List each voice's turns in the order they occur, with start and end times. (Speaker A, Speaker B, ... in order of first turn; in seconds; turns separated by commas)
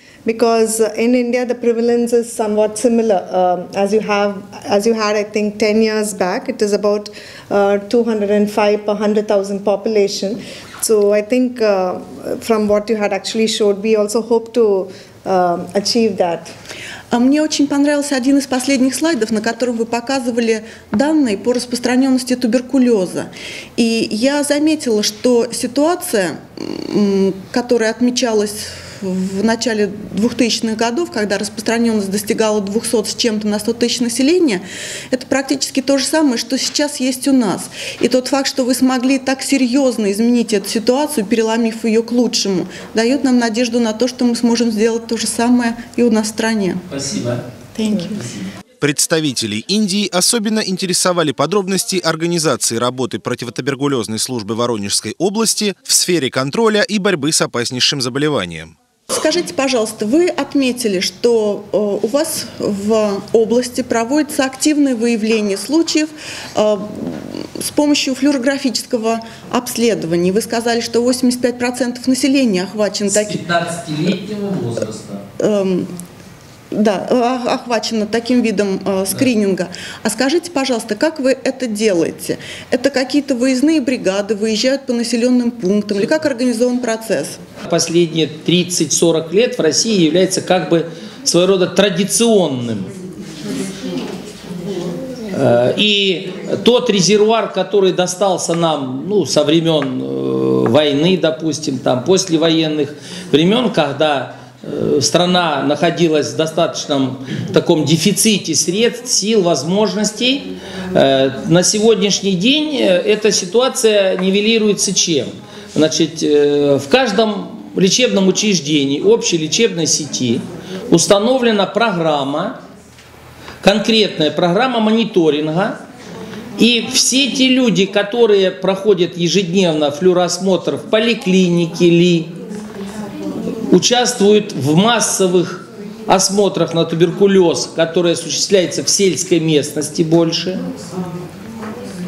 Speaker A: 0.2-16.5, Speaker B: 17.1-46.8, Speaker C: 46.9-47.4, Speaker B: 47.8-48.2, Speaker D: 48.8-58.8, Speaker B: 59.1-73.5, Speaker C: 73.2-75.2, Speaker B: 75.4-75.9, Speaker B: 76.7-87.4, Speaker C: 87.7-92.9, Speaker C: 95.3-122.6, Speaker C: 123.6-125.8, Speaker C: 126.6-132.3, Speaker C: 133.7-140.6